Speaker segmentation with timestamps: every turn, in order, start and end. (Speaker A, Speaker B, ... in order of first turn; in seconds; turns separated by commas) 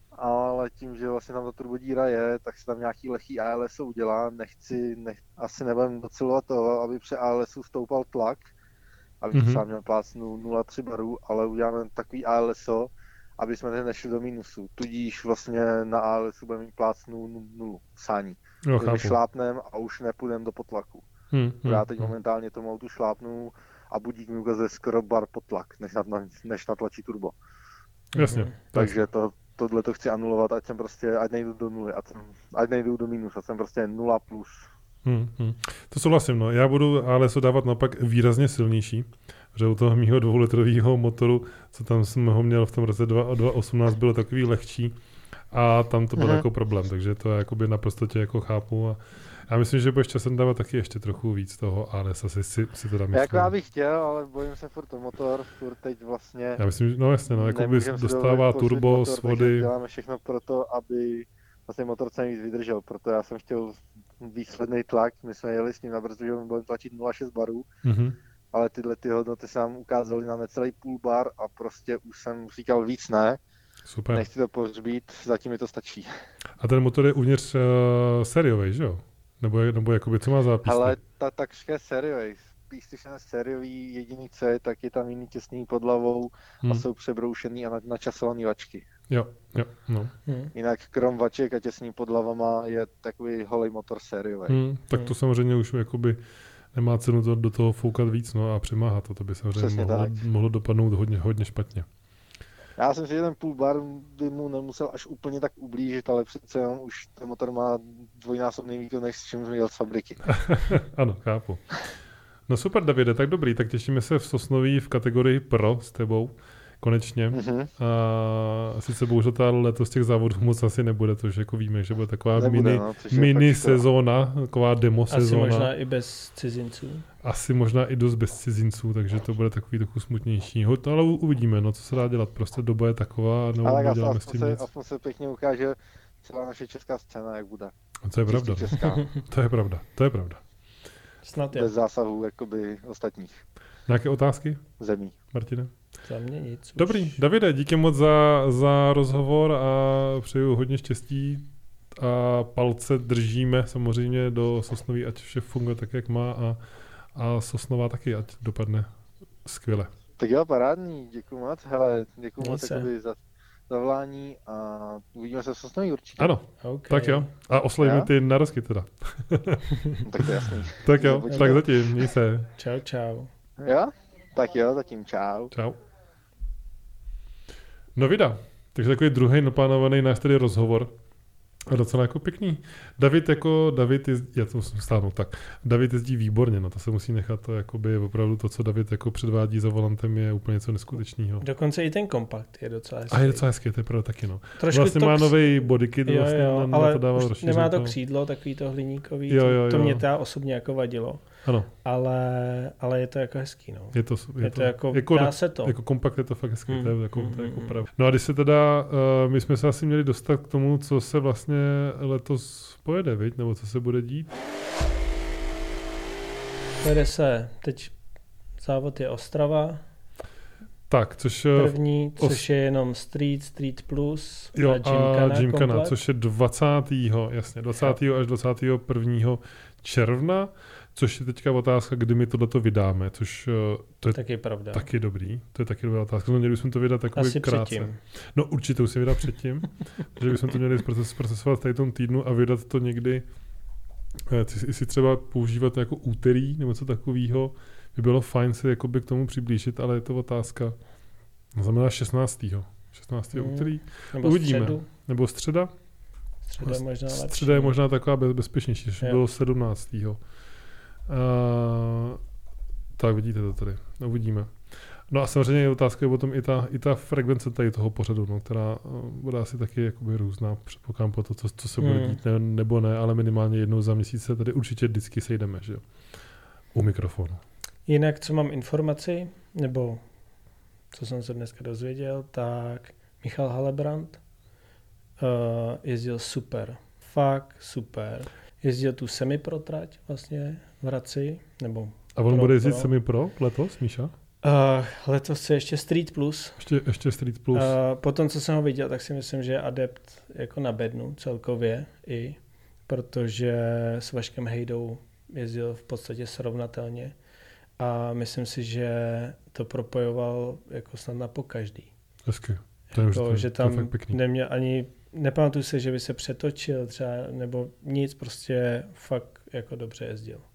Speaker A: 0.1-8.4, Speaker A: 9.2-21.0, Speaker B: 9.3-9.6, Speaker B: 18.6-19.2, Speaker B: 21.3-22.1, Speaker A: 21.6-27.4, Speaker C: 28.1-28.5, Speaker B: 28.1-29.0, Speaker A: 28.7-34.6, Speaker B: 35.0-45.0, Speaker B: 45.5-53.5, Speaker A: 46.2-46.4, Speaker A: 53.1-56.6, Speaker B: 56.6-59.7, Speaker A: 57.3-67.7, Speaker B: 67.8-68.2, Speaker A: 68.5-73.4, Speaker B: 73.8-74.2, Speaker A: 74.1-76.1, Speaker B: 76.6-81.0, Speaker A: 80.6-88.9, Speaker B: 89.1-90.1, Speaker C: 90.2-90.5, Speaker A: 90.5-94.6, Speaker B: 94.5-96.2, Speaker B: 96.7-101.9, Speaker A: 99.5-100.1, Speaker A: 102.8-110.3, Speaker B: 110.3-111.6, Speaker B: 112.5-125.7, Speaker A: 117.3-117.7, Speaker A: 122.3-123.8, Speaker C: 125.1-127.0, Speaker B: 127.2-134.7, Speaker A: 133.6-137.7, Speaker B: 138.0-140.4, Speaker A: 138.3-139.1, Speaker C: 141.2-141.7, Speaker A: 141.5-143.4, Speaker B: 143.9-144.6, Speaker A: 144.8-145.2, Speaker B: 145.3-145.7, Speaker C: 146.0-147.1, Speaker B: 146.8-156.6, Speaker B: 157.1-158.9, Speaker B: 159.4-159.9, Speaker A: 160.2-163.2, Speaker C: 162.4-162.9, Speaker A: 163.7-166.3, Speaker B: 166.2-172.5, Speaker C: 166.6-167.3, Speaker A: 167.8-168.1, Speaker A: 170.0-171.6, Speaker C: 171.3-171.6, Speaker C: 172.5-173.3, Speaker A: 173.6-175.5, Speaker B: 175.5-175.8, Speaker B: 177.9-180.9, Speaker B: 181.7-191.4, Speaker C: 191.4-193.4, Speaker B: 193.1-197.9, Speaker C: 194.6-195.4, Speaker C: 196.0-201.2, Speaker B: 199.3-200.0, Speaker B: 201.4-201.7, Speaker C: 201.8-205.8, Speaker B: 203.9-214.3, Speaker C: 206.7-207.8, Speaker C: 216.8-217.9, Speaker C: 218.6-219.8, Speaker B: 220.9-222.4, Speaker C: 221.5-225.9, Speaker B: 224.5-234.2, Speaker C: 234.1-234.8, Speaker B: 234.7-243.2, Speaker C: 237.1-238.0, Speaker B: 244.3-250.8, Speaker B: 251.5-255.7, Speaker C: 253.3-254.9, Speaker C: 256.4-257.7, Speaker B: 256.6-260.2, Speaker B: 261.1-262.2, Speaker B: 263.0-275.8, Speaker C: 271.8-272.2, Speaker B: 276.7-277.4, Speaker C: 277.9-280.0, Speaker C: 280.9-284.2, Speaker C: 285.2-292.9, Speaker B: 292.1-294.1, Speaker C: 294.4-296.6, Speaker B: 296.6-297.7, Speaker C: 297.5-307.1, Speaker C: 307.8-311.9, Speaker B: 312.2-314.2, Speaker C: 312.9-320.4